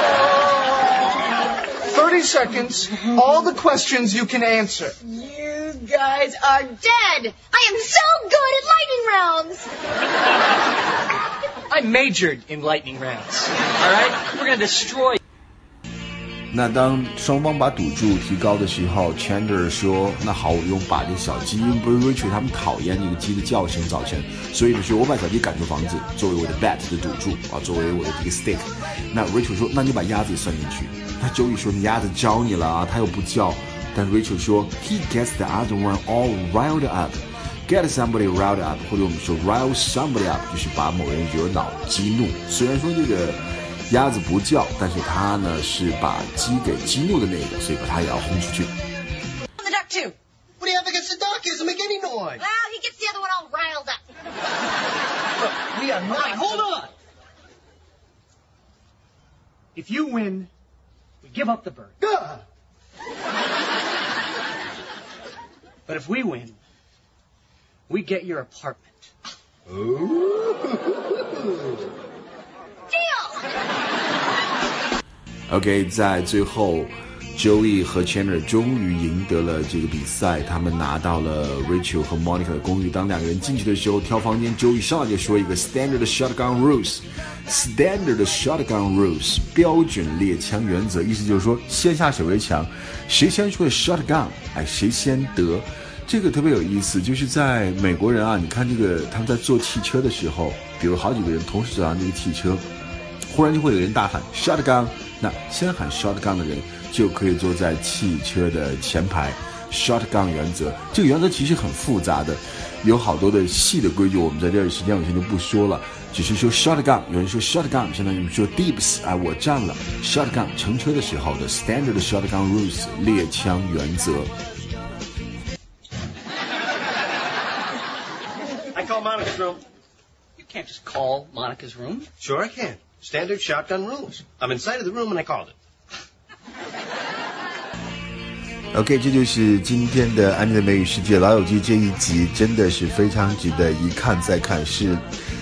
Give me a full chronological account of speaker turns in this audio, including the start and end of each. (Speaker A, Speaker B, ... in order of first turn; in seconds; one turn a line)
Speaker A: 1.8-5.0
Speaker B: 5.0-9.7
Speaker C: 11.7-15.2
Speaker D: 16.5-48.7
Speaker C: 49.8-50.1
Speaker E: 50.6-52.4
Speaker B: 52.4-54.0
Speaker E: 55.6-56.6
Speaker C: 56.0-56.9
Speaker C: 59.7-60.5
Speaker C: 61.2-62.0
Speaker C: 65.9-66.6
Speaker C: 67.9-69.1
Speaker B: 72.9-73.5
Speaker D: 75.5-102.7
Speaker D: 103.3-124.3
Speaker E: 128.7-129.6
Speaker C: 130.4-132.1
Speaker E: 132.2-135.5
Speaker D: 138.7-145.0